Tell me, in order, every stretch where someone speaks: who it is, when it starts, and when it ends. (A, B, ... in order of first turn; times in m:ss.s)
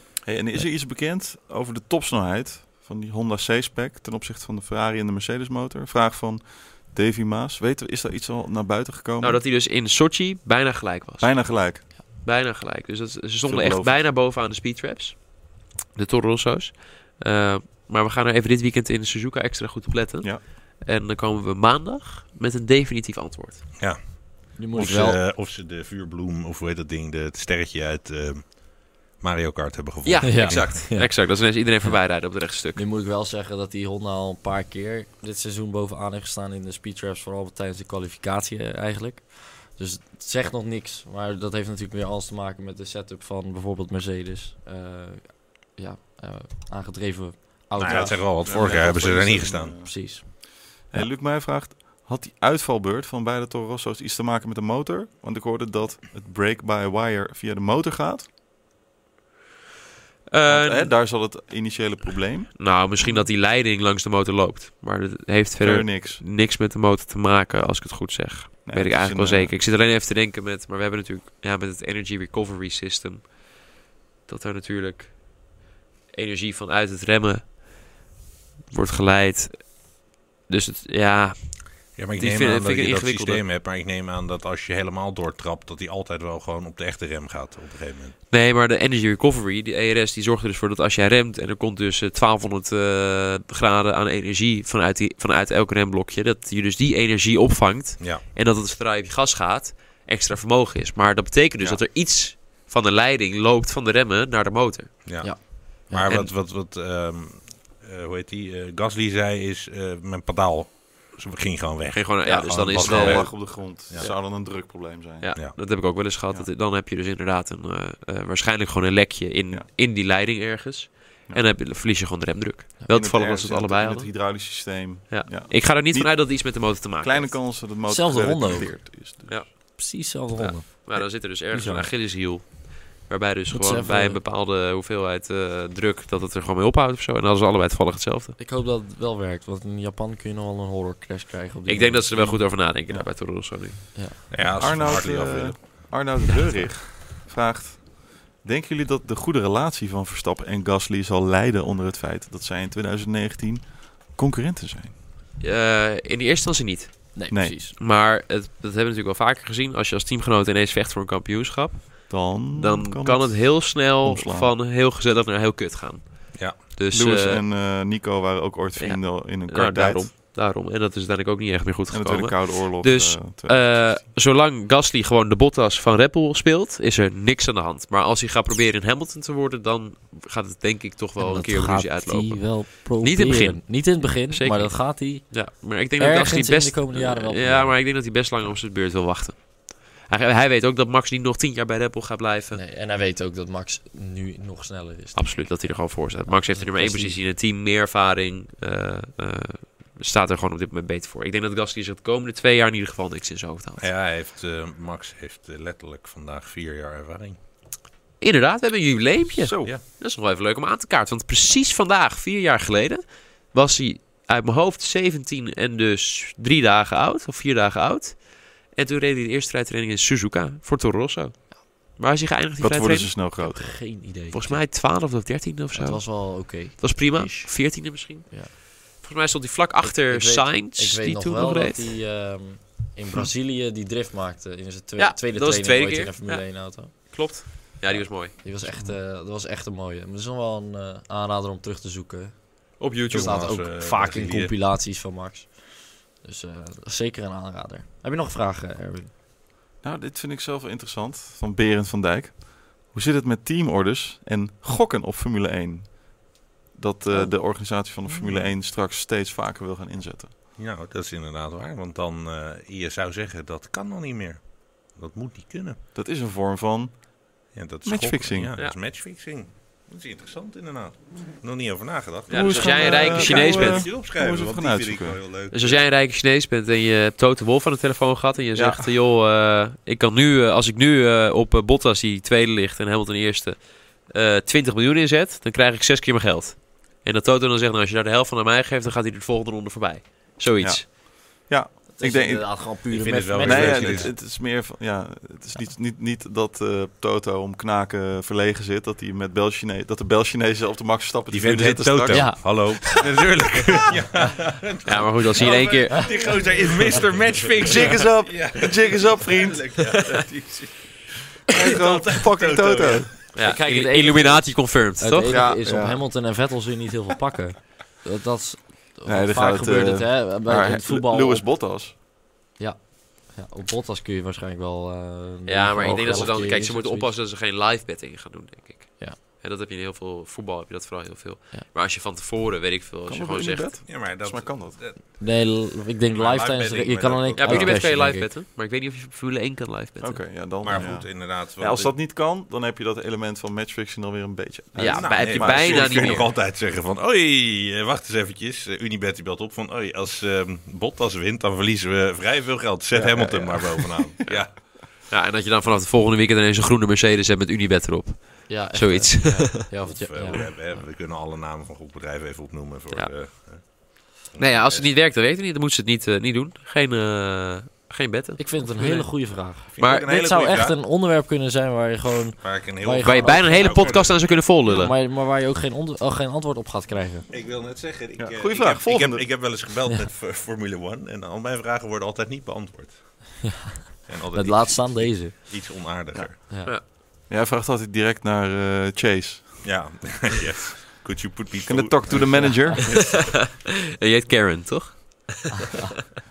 0:00.2-0:09.4 A
0:09.2-0:23.7 B
0:11.2-0:11.9 A
0:13.4-0:14.0 A
0:23.8-0:30.8 C
0:24.6-0:25.2 D
0:30.0-0:32.8 B
0:30.2-0:32.0 D
0:32.8-0:49.2 D
0:47.8-0:49.9 C
0:47.8-0:50.3 A
0:49.8-0:51.1 D
0:50.8-0:58.3 A
1:00.3-1:00.9 B
1:00.5-1:03.3 A
1:02.6-1:13.6 B
1:05.6-1:06.2 A
1:08.7-1:09.5 A
1:14.3-1:15.6 B
1:16.1-1:17.6 B
1:18.7-1:23.4 B
1:22.0-1:28.2 C
1:28.3-1:45.6 B
1:45.0-1:54.1 C
1:45.2-1:46.1 D
1:51.9-1:54.2 B
1:52.3-1:55.4 A
1:55.2-2:07.5 B
2:02.9-2:09.5 A
2:07.9-2:08.8 D
2:09.3-2:18.4 B
2:09.8-2:11.9 D
2:13.5-2:14.2 D
2:18.4-2:22.1 D
2:21.7-2:23.9 B
2:22.1-2:23.1 A
2:24.3-2:25.9 C
2:24.4-2:35.0 A
2:35.4-2:47.4 B
2:37.2-2:37.8 D
2:42.1-2:44.5 A
2:46.3-2:46.6 C
2:46.9-2:50.1 A
2:48.8-3:12.6 B
2:51.9-2:54.0 A
3:01.2-3:07.8 D
3:12.5-3:17.2 D
3:15.2-3:23.9 B
3:23.8-3:27.4 C
3:28.2-3:43.2 B
3:29.4-3:29.7 A
3:42.6-3:43.6 A
3:43.4-3:44.7 D
3:43.7-3:52.0 B
3:45.7-3:48.5 D
3:49.8-4:09.1 D
3:55.0-3:58.9 B
4:02.8-4:03.6 B
4:03.1-4:04.5 C
4:09.8-4:20.4 A
4:17.1-4:18.2 D
4:20.6-4:25.8 C
4:25.9-4:28.5 A
4:27.5-4:35.8 C
4:32.3-4:33.9 B
4:32.3-4:35.2 A
4:35.5-4:50.9 B
4:38.6-4:38.8 A
4:50.6-4:52.8 A
4:52.0-4:54.2 D
4:52.9-4:54.2 C
4:53.4-5:02.3 A
5:01.3-5:13.2 C
5:02.1-5:02.4 D
5:04.8-5:06.5 B
5:07.6-5:10.0 A
5:11.5-5:13.1 A
5:13.3-5:15.5 B
5:13.4-5:21.5 D
5:15.3-5:16.0 A
5:19.1-5:21.9 A
5:22.6-5:27.1 D
5:25.5-5:33.8 B
5:25.8-5:26.4 A
5:33.1-5:34.8 A
5:33.9-5:37.9 C
5:35.1-5:38.3 D
5:37.4-5:40.8 B
5:40.0-5:46.3 A
5:40.6-5:41.9 C
5:44.8-5:46.3 B
5:44.8-5:54.6 C
5:52.9-5:54.3 A
5:55.1-5:59.7 B
5:58.5-6:00.8 D
5:59.8-6:04.9 C
6:02.9-6:03.7 B
6:04.4-6:10.1 B
6:08.4-6:14.1 D
6:09.7-6:10.8 C
6:12.4-6:14.9 C
6:13.0-6:15.0 B
6:14.6-6:17.3 D
6:17.3-6:23.5 C
6:18.2-6:19.4 A
6:23.4-6:25.3 D
6:24.1-6:26.4 C
6:26.1-6:30.2 A
6:26.5-6:26.8 D
6:29.6-6:32.7 C
6:31.7-6:33.5 A
6:32.9-6:35.6 B